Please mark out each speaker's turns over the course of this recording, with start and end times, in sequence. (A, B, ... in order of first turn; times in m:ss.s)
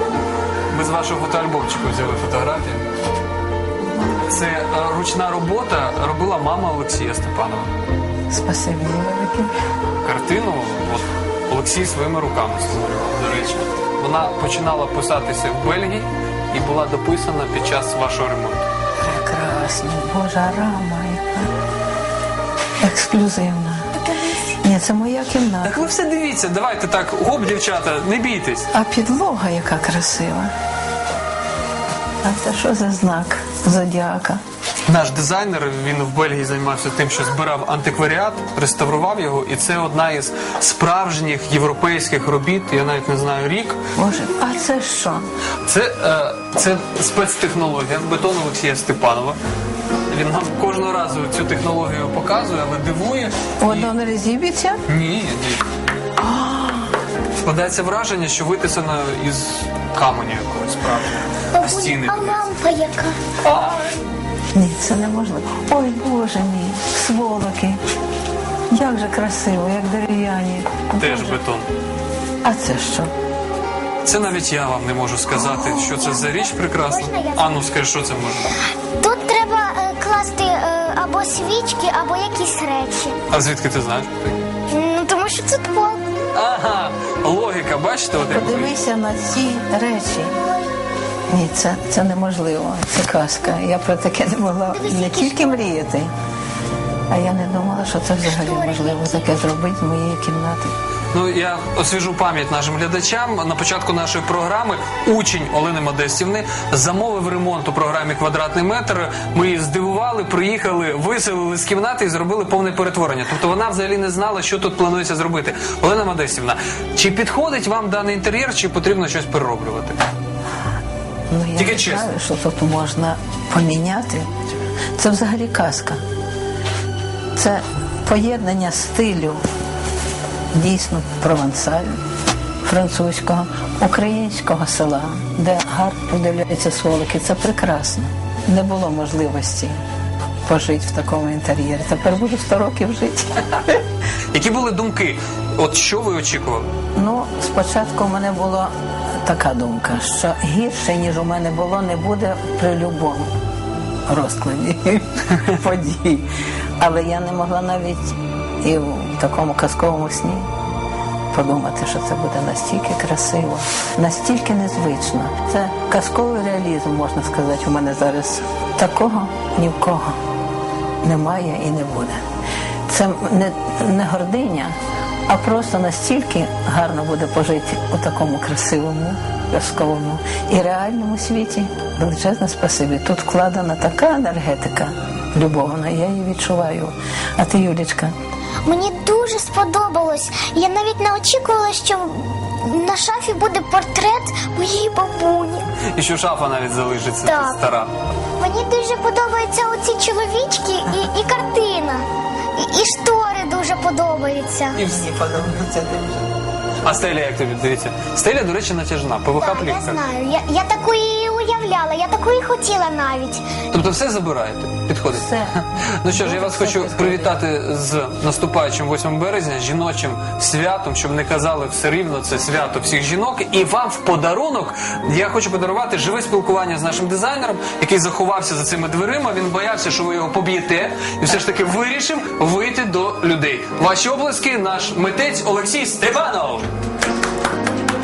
0:00.7-0:02.8 A
0:04.1-0:07.7 A
0:08.3-0:09.5 B
0:10.0-0:18.6 A
0:19.0-0:21.5 B
0:22.8-0:23.9 B
0:24.6-0:25.8 B
0:25.6-0:28.7 A
0:28.7-0:30.5 B
0:32.2-0:34.4 B
0:34.8-0:43.8 A
0:44.0-0:45.2 B
0:45.6-0:49.4 A
0:50.1-0:53.9 A
0:53.6-0:54.8 B
0:54.9-0:55.6 A
0:56.2-0:56.9 B
0:57.4-1:02.5 A
1:01.5-1:03.2 C
1:03.4-1:04.0 A
1:04.5-1:07.8 B
1:08.7-1:11.4 B
1:11.0-1:11.7 A
1:12.4-1:13.1 B
1:14.0-1:18.5 A
1:15.3-1:17.4 C
1:19.0-1:23.2 C
1:23.3-1:24.4 A
1:24.7-1:26.0 C
1:26.3-1:28.8 A
1:28.3-1:30.3 B
1:30.4-1:30.7 C
1:31.3-1:36.1 B
1:34.6-1:35.8 C
1:37.1-1:40.7 B
1:38.2-1:39.4 C
1:41.1-2:00.0 A
2:01.3-2:04.3 B
2:01.6-2:02.1 A
2:05.0-2:06.0 B
2:07.3-2:09.4 B
2:10.5-2:11.9 B
2:12.7-2:19.8 B
2:20.4-2:23.8 B
2:24.3-2:26.7 A
2:27.0-2:28.7 B
2:29.2-2:33.3 B
2:34.1-2:36.3 B
2:36.8-2:40.4 B
2:41.3-2:50.1 B
2:51.0-2:52.2 B
2:52.9-2:54.7 B
2:55.3-3:08.1 B
3:08.6-3:15.7 C
3:15.8-3:17.9 A
3:17.2-3:17.6 C
3:18.4-3:22.0 C
3:22.6-3:24.8 C
3:24.7-3:25.4 A
3:25.0-3:26.2 B
3:26.8-3:30.0 A
3:29.4-3:33.4 C
3:33.7-3:56.7 A
3:35.2-3:35.5 B
3:36.1-3:37.3 B